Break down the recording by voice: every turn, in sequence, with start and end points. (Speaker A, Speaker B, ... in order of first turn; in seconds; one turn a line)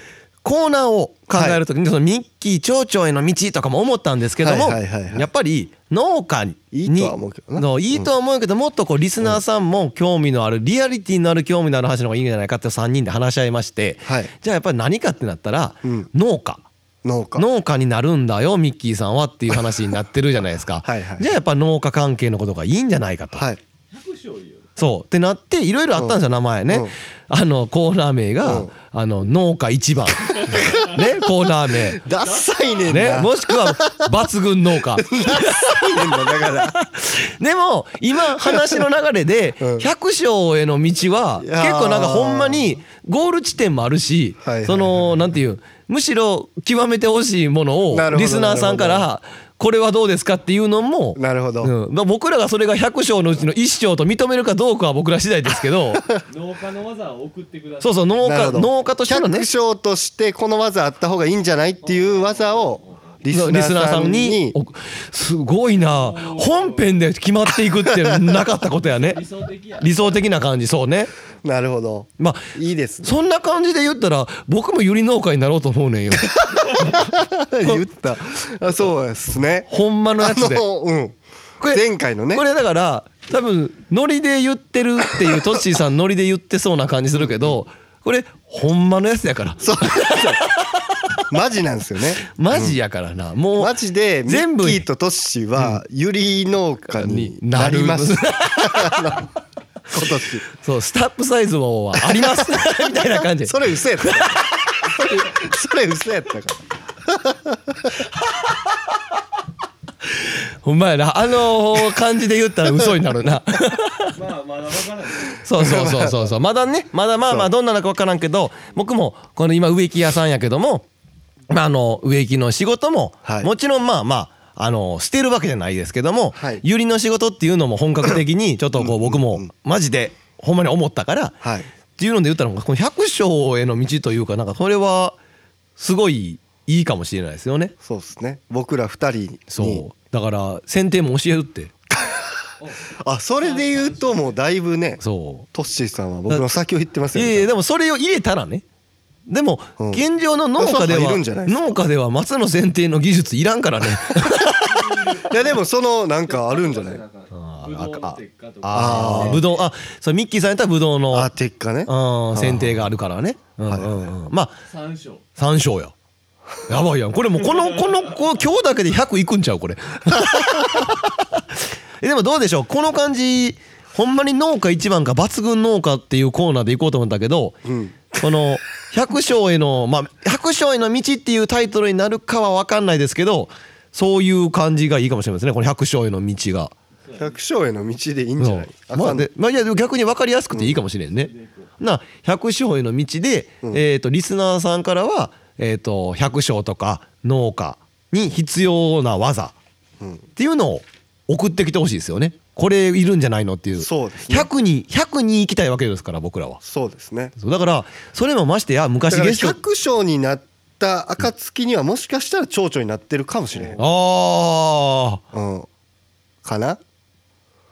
Speaker A: 0.4-16.6
Speaker B: 1.3-1.6
Speaker B: 4.4-5.3
Speaker B: 6.7-8.1
Speaker B: 14.1-14.3
Speaker B: 15.8-16.1
Speaker B: 17.0-17.5
Speaker A: 17.4-23.5
Speaker B: 20.8-21.3
Speaker C: 23.9-24.7
Speaker A: 24.8-32.0
Speaker B: 26.0-26.9
Speaker B: 28.4-28.7
Speaker C: 30.3-31.1
Speaker B: 30.5-31.0
Speaker B: 31.9-34.1
Speaker C: 32.1-33.1
Speaker A: 32.9-56.0
Speaker B: 34.9-36.8
Speaker B: 38.5-38.8
Speaker B: 39.6-39.9
Speaker B: 41.4-42.7
Speaker B: 44.5-45.2
Speaker B: 47.9-49.0
Speaker B: 51.2-51.7
Speaker C: 56.3-58.2
Speaker A: 57.8-59.5
Speaker B: 58.2-64.6
Speaker C: 61.8-63.2
Speaker A: 63.3-69.2
Speaker C: 65.8-66.9
Speaker B: 67.9-68.2
Speaker C: 68.9-70.2
Speaker A: 69.8-71.1
Speaker B: 71.4-73.1
Speaker A: 72.2-72.5
Speaker A: 73.0-77.1
Speaker B: 76.8-81.2
Speaker A: 79.7-80.6
Speaker A: 81.6-91.2
Speaker B: 81.7-82.4
Speaker B: 89.6-90.4
Speaker B: 91.3-92.8
Speaker A: 92.2-93.8
Speaker B: 93.6-99.3
Speaker A: 94.3-94.8
Speaker A: 96.9-99.2
Speaker B: 99.9-100.5
Speaker A: 100.5-104.6
Speaker B: 102.0-102.5
Speaker B: 103.4-108.0
Speaker A: 110.1-114.2
Speaker C: 114.1-115.5
Speaker A: 115.4-120.8
Speaker B: 115.6-116.3
Speaker A: 121.5-131.4
Speaker B: 123.2-123.5
Speaker B: 126.3-126.6
Speaker B: 128.8-129.5
Speaker B: 131.4-131.7
Speaker A: 132.0-135.2
Speaker A: 135.8-137.8
Speaker B: 137.8-139.8
Speaker A: 139.5-141.7
Speaker B: 141.9-142.3
Speaker C: 142.6-142.9
Speaker B: 143.0-145.0
Speaker C: 143.4-144.4
Speaker A: 145.0-145.5
Speaker B: 145.5-147.5
Speaker A: 147.1-148.6
Speaker A: 149.3-154.9
Speaker B: 149.8-150.0
Speaker B: 150.6-151.7
Speaker C: 154.6-155.6
Speaker B: 155.2-157.0
Speaker C: 156.2-159.5
Speaker A: 157.3-161.3
Speaker B: 158.7-159.4
Speaker B: 161.1-162.8
Speaker A: 161.9-164.6
Speaker B: 163.7-164.0
Speaker C: 164.7-165.3
Speaker A: 165.4-165.9
Speaker A: 166.7-177.6
Speaker C: 167.4-168.2
Speaker B: 177.7-178.2
Speaker A: 178.1-186.7
Speaker C: 187.0-187.4
Speaker B: 187.2-189.3
Speaker A: 188.4-199.5
Speaker C: 191.1-191.7
Speaker A: 200.4-206.6
Speaker B: 203.8-204.5
Speaker B: 206.6-207.3
Speaker A: 207.4-209.6
Speaker B: 209.1-213.8
Speaker C: 213.5-213.8
Speaker A: 213.8-215.2
Speaker B: 215.3-215.7
Speaker B: 216.4-216.8